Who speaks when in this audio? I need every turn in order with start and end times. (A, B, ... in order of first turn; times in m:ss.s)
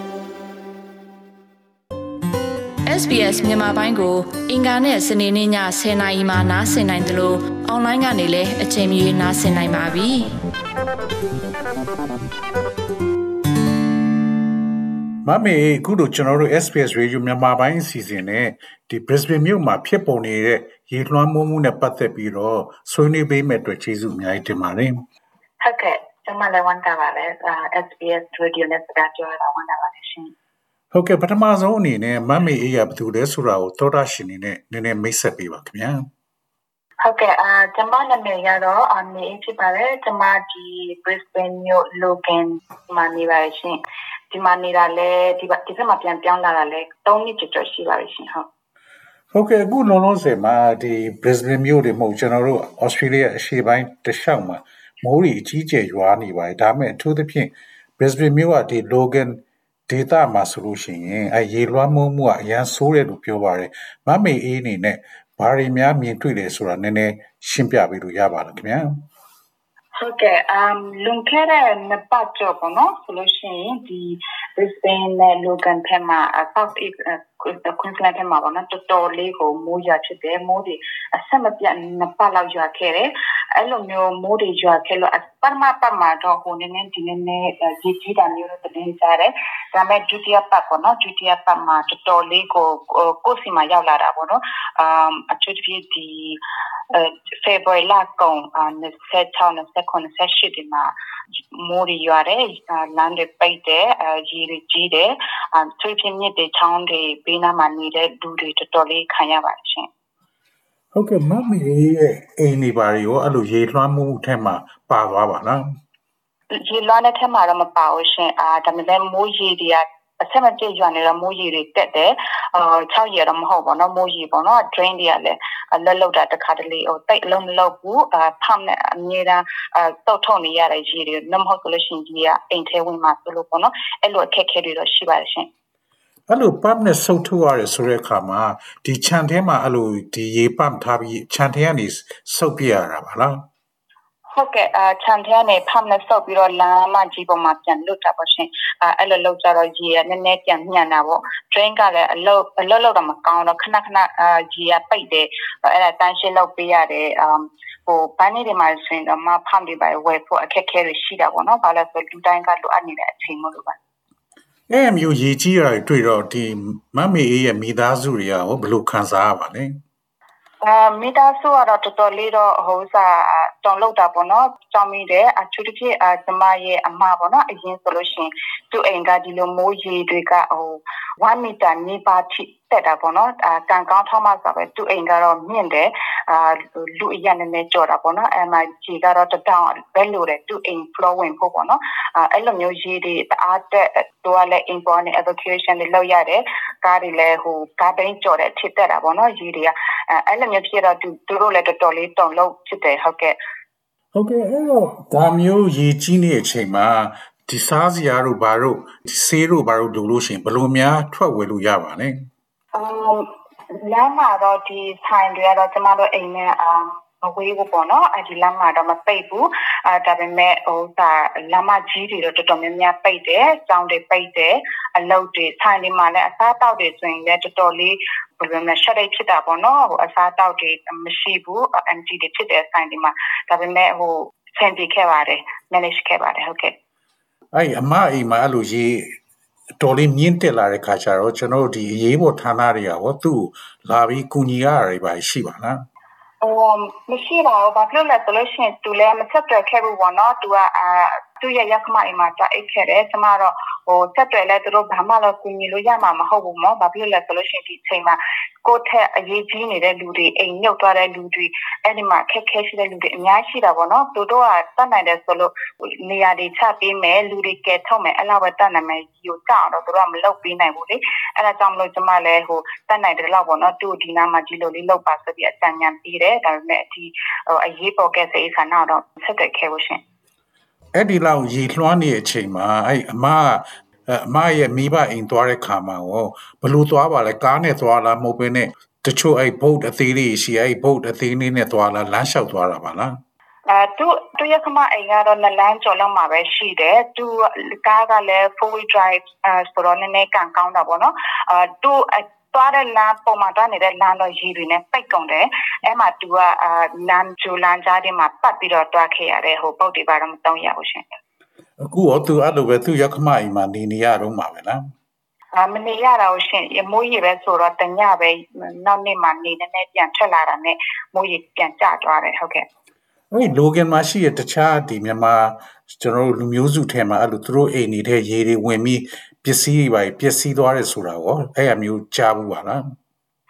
0:02.9-0:10.4 A
0:15.2-0:25.0 B
0:25.6-0:30.3 C
0:30.9-0:36.0 B
0:37.0-0:43.8 C
0:44.3-0:48.5 C
0:49.3-1:08.9 B
1:10.0-1:36.4 C
1:36.9-1:40.9 C
1:41.5-1:49.9 C
1:50.9-1:55.6 B
1:56.6-2:15.5 C
2:16.3-2:23.4 B
2:24.3-2:43.8 C
2:44.7-2:49.7 B
2:50.6-3:23.4 C
3:24.1-3:32.1 B
3:32.8-3:56.7 C
3:57.5-3:59.0 B
3:59.8-4:05.8 B
4:06.4-4:40.0 C
4:41.0-4:53.1 B
4:53.7-5:11.2 C
5:11.8-5:14.8 B
5:15.6-5:22.6 C
5:23.3-5:32.8 B